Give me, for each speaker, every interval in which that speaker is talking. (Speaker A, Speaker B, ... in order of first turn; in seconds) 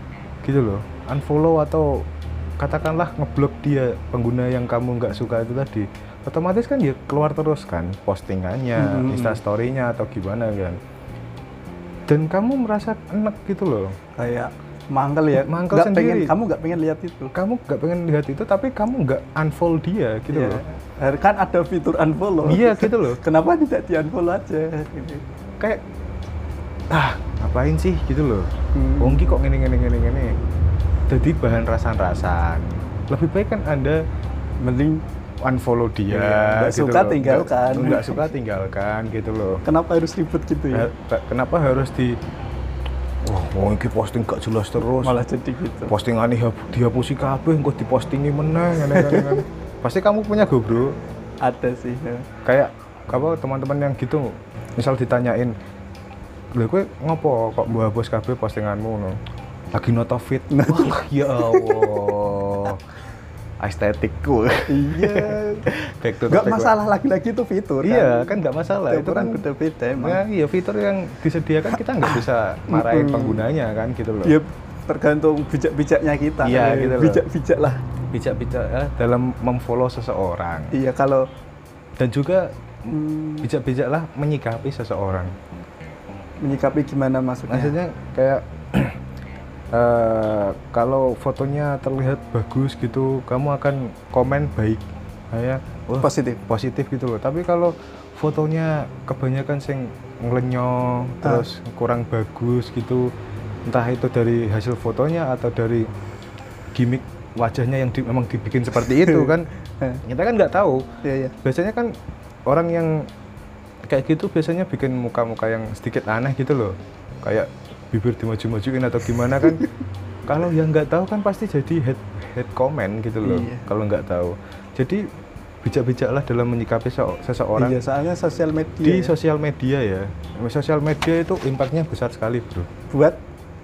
Speaker A: 0.4-2.1, 2.6-10.8, 12.1-14.0, 15.3-16.3, 17.3-20.6, 22.4-23.2, 26.9-30.3, 31.1-34.0, 35.4-39.6, 40.7-42.2, 43.2-45.2, 45.9-51.0, 52.4-55.5, 56.5-59.2, 59.7-62.8, 63.6-66.7, 67.8-69.4, 70.0-74.4, 76.4-77.2, 78.1-80.7, 82.0-85.3, 87.5-89.0, 89.7-103.1, 103.7-105.9, 106.7-109.5, 110.0-110.8, 111.4-111.9, 112.5-113.1, 113.9-119.6, 120.2-125.0, 125.6-127.8, 128.8-132.7
Speaker B: 8.8-9.4, 14.2-17.3, 20.3-25.2, 28.7-29.3, 34.6-35.0, 36.1-38.2, 39.6-40.9, 44.8-45.9, 48.8-49.4, 51.4-52.2, 60.5-62.0, 64.7-65.7, 66.3-68.3, 68.9-70.2, 72.0-73.4, 74.2-77.8, 80.7-81.2, 82.9-83.5, 86.4-87.7, 96.0-96.4, 108.8-110.0, 111.0-111.3, 123.2-123.7, 127.5-129.1, 132.9-133.2